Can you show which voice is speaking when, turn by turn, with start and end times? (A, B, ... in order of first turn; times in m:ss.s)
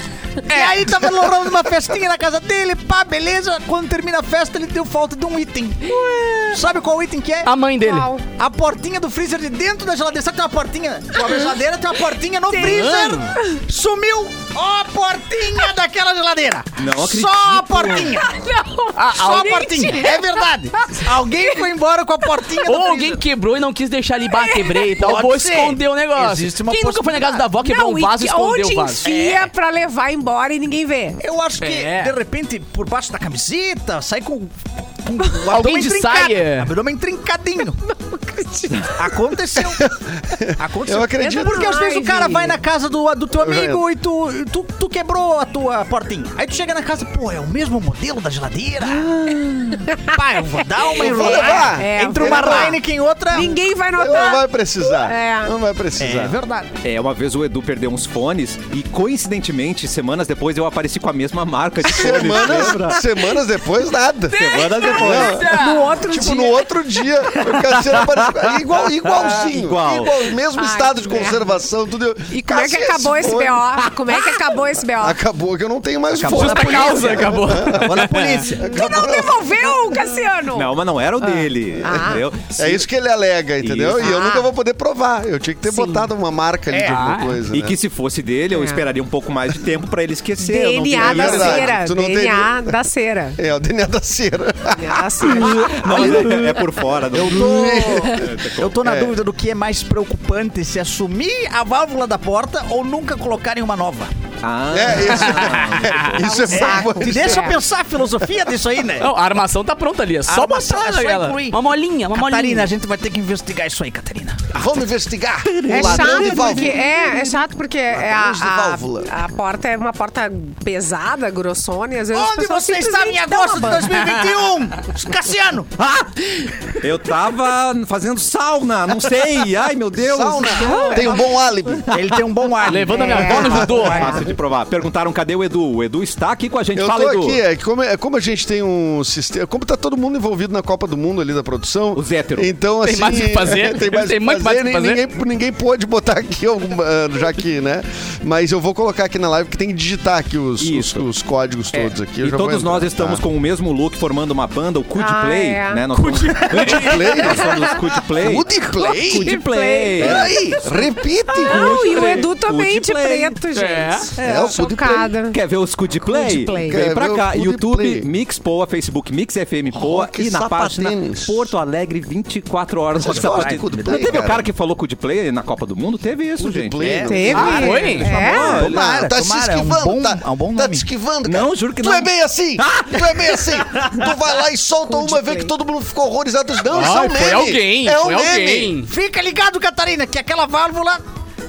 0:00.4-0:06.0 A
0:00.5-0:00.8 B
0:05.9-0:06.4 B
0:06.5-0:07.5 A
0:07.4-0:08.1 B
0:07.8-0:08.2 C
0:08.3-0:18.3 A
0:11.2-0:11.6 C
0:12.5-0:13.6 C
0:12.6-0:13.3 B
0:16.8-0:18.1 D
0:18.1-0:21.6 C
0:19.0-0:19.6 B
0:19.1-0:23.2 A
0:22.6-0:29.0 B
0:24.5-0:24.8 C
0:24.8-0:27.4 A
0:27.6-0:31.2 C
0:29.0-0:29.5 A
0:31.2-0:37.8 A
0:31.6-0:32.1 B
0:35.2-0:35.5 C
0:35.5-0:36.7 B
0:37.8-0:39.0 C
0:38.8-0:39.9 A
0:39.6-0:41.7 E
0:40.6-0:49.2 A
0:41.2-0:42.6 C
0:43.3-0:43.8 E
0:48.9-0:49.9 E
0:49.8-0:50.2 C
0:50.0-0:53.6 A
0:50.8-0:55.5 C
0:50.9-0:52.8 E
0:53.9-0:56.3 E
0:56.0-0:56.7 A
0:56.8-1:03.0 D
1:01.8-1:04.4 E
1:01.9-1:03.4 C
1:04.3-1:05.4 D
1:04.3-1:05.9 B
1:04.7-1:06.7 C
1:04.9-1:13.9 E
1:09.0-1:10.2 D
1:10.5-1:11.5 C
1:12.3-1:15.2 C
1:14.9-1:19.7 E
1:16.2-1:16.5 D
1:16.3-1:18.4 B
1:16.3-1:18.6 A
1:18.6-1:22.2 C
1:20.5-1:22.8 D
1:21.9-1:27.8 E
1:23.6-1:24.1 D
1:24.0-1:24.5 C
1:25.7-1:26.1 C
1:26.7-1:27.0 A
1:26.9-1:27.4 B
1:27.5-1:31.7 D
1:28.5-1:28.8 C
1:30.4-1:33.4 C
1:31.0-1:32.7 E
1:33.4-1:36.5 E
1:34.7-1:36.6 C
1:35.2-1:38.7 D
1:37.1-1:44.1 A
1:37.1-1:38.3 E
1:38.8-1:39.2 E
1:44.4-1:46.1 D
1:44.7-1:47.6 E
1:46.1-1:47.6 C
1:46.5-1:49.1 A
1:49.0-1:52.7 B
1:50.3-1:51.6 A
1:52.1-1:54.4 A
1:54.5-1:56.8 E
1:55.4-1:57.4 D
1:55.7-2:04.2 C
1:57.9-1:59.1 E
2:02.1-2:05.7 A
2:05.8-2:11.2 D
2:10.0-2:11.9 E
2:10.6-2:11.1 C
2:11.9-2:14.0 A
2:12.6-2:14.3 B
2:12.9-2:14.3 C
2:13.3-2:13.7 E
2:13.3-2:17.4 D
2:16.7-2:33.2 E
2:21.9-2:22.5 D
2:22.8-2:25.0 B
2:30.6-2:31.0 D
2:31.7-2:40.5 D
2:35.0-2:35.8 C
2:35.9-2:37.4 B
2:36.5-2:39.3 E
2:37.2-2:37.8 C
2:38.8-2:45.4 C
2:40.0-2:41.8 E
2:41.4-2:43.4 D
2:41.7-2:42.3 B
2:43.5-2:44.1 B
2:44.2-2:45.1 E
2:44.4-2:56.8 D
2:46.0-2:46.8 C
2:46.7-2:48.1 E
2:49.7-2:51.5 E
2:52.9-2:54.5 E
2:53.0-2:54.3 A
2:56.4-2:57.8 E
2:56.8-3:00.8 A
2:57.0-2:58.6 C
2:57.3-2:59.0 D
2:57.5-2:58.1 B
2:58.4-3:08.7 E
3:01.2-3:03.5 D
3:04.8-3:05.5 C
3:06.7-3:08.9 B
3:08.8-3:11.0 A